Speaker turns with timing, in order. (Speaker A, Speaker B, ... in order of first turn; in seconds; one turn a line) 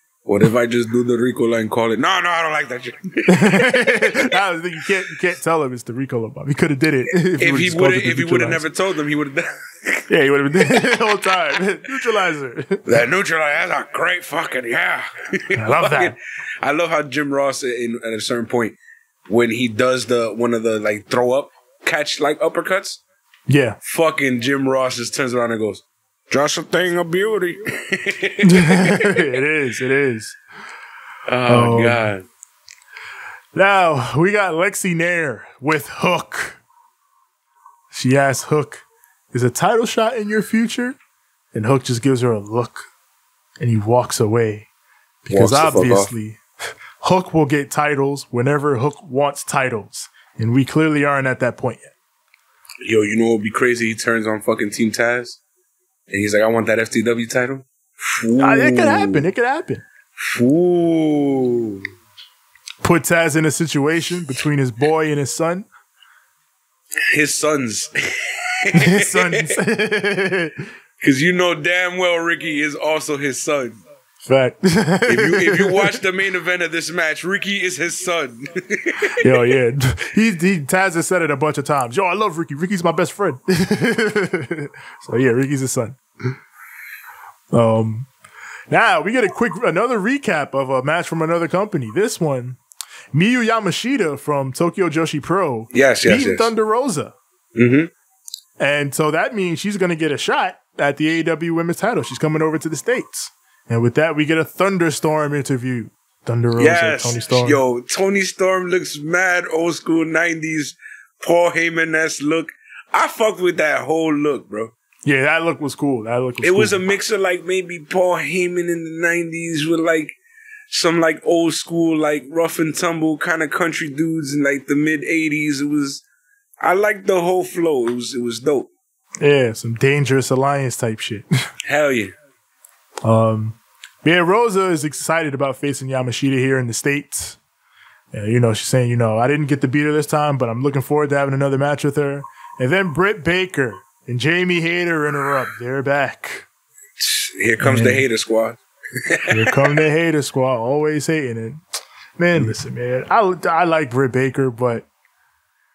Speaker A: 0.2-4.2
Speaker B: 3.3-8.6
Speaker A: 7.1-10.1
Speaker B: 10.1-12.8
Speaker A: 12.8-23.0
Speaker B: 15.6-16.1
Speaker B: 23.5-23.8
Speaker A: 23.8-29.2
Speaker B: 28.4-30.4
Speaker A: 31.3-32.2
Speaker B: 31.4-32.0
Speaker B: 33.5-36.6
Speaker B: 37.9-41.0
Speaker B: 41.5-42.9
Speaker B: 43.6-44.7
Speaker B: 45.2-46.4
Speaker A: 45.3-46.1
Speaker B: 47.0-51.9
Speaker A: 52.8-55.4
Speaker A: 56.1-59.2
Speaker B: 58.4-59.8
Speaker A: 60.2-61.8
Speaker B: 62.8-65.7
Speaker A: 67.1-69.5
Speaker B: 68.7-70.6
Speaker A: 71.0-73.8
Speaker B: 74.2-76.0
Speaker A: 75.1-79.3
Speaker B: 79.2-86.3
Speaker B: 87.5-88.1
Speaker B: 88.7-92.6
Speaker B: 93.1-97.1
Speaker A: 95.7-96.5
Speaker A: 97.5-97.9
Speaker B: 98.6-107.6
Speaker A: 106.6-114.7
Speaker B: 115.0-116.8
Speaker A: 116.4-120.2
Speaker A: 120.7-126.0
Speaker A: 126.6-128.7
Speaker B: 129.2-131.2
Speaker A: 131.6-132.1
Speaker B: 133.0-137.4
Speaker B: 138.1-146.5
Speaker A: 147.0-149.7
Speaker B: 147.6-148.0
Speaker B: 149.3-151.6
Speaker B: 152.2-154.8